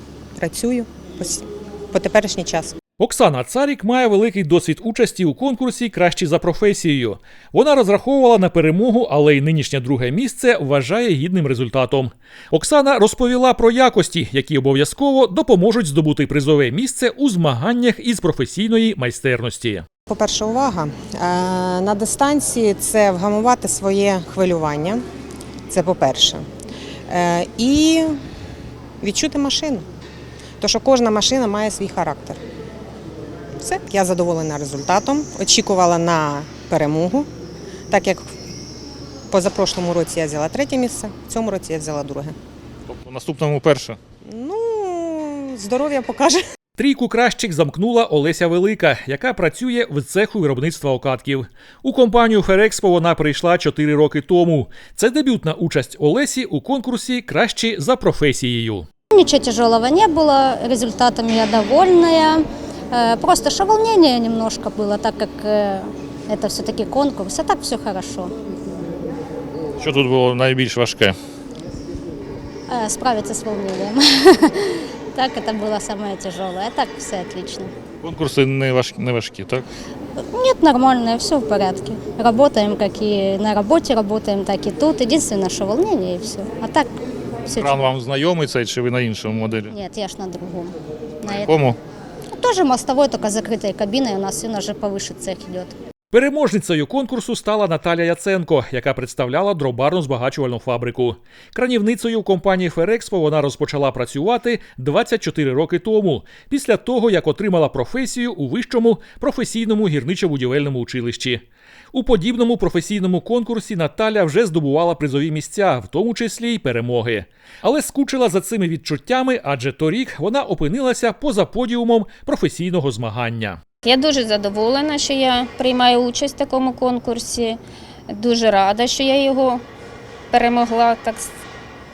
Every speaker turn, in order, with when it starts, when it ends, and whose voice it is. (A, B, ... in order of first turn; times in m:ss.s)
0:00.4-0:02.8 A
0:03.0-0:19.8 B
0:20.1-0:25.0 A
0:25.7-0:26.4 A
0:27.1-0:28.1 A
0:29.0-0:29.8 A
0:30.6-0:32.4 A
0:33.6-0:37.3 A
0:37.9-0:38.2 A
0:39.3-0:42.3 A
0:42.9-0:44.0 C
0:44.2-0:46.4 A
0:46.8-0:58.9 B
0:59.1-1:02.4 D
1:02.9-1:08.3 D
1:09.8-1:11.2 C
1:12.7-1:17.6 D
1:18.0-1:19.7 C
1:20.3-1:26.9 D
1:27.6-1:29.7 C
1:29.7-1:30.7 D
1:31.2-1:31.8 C
1:32.4-1:35.7 D
1:36.1-2:03.6 B
2:03.8-2:09.6 E
2:10.3-2:11.3 E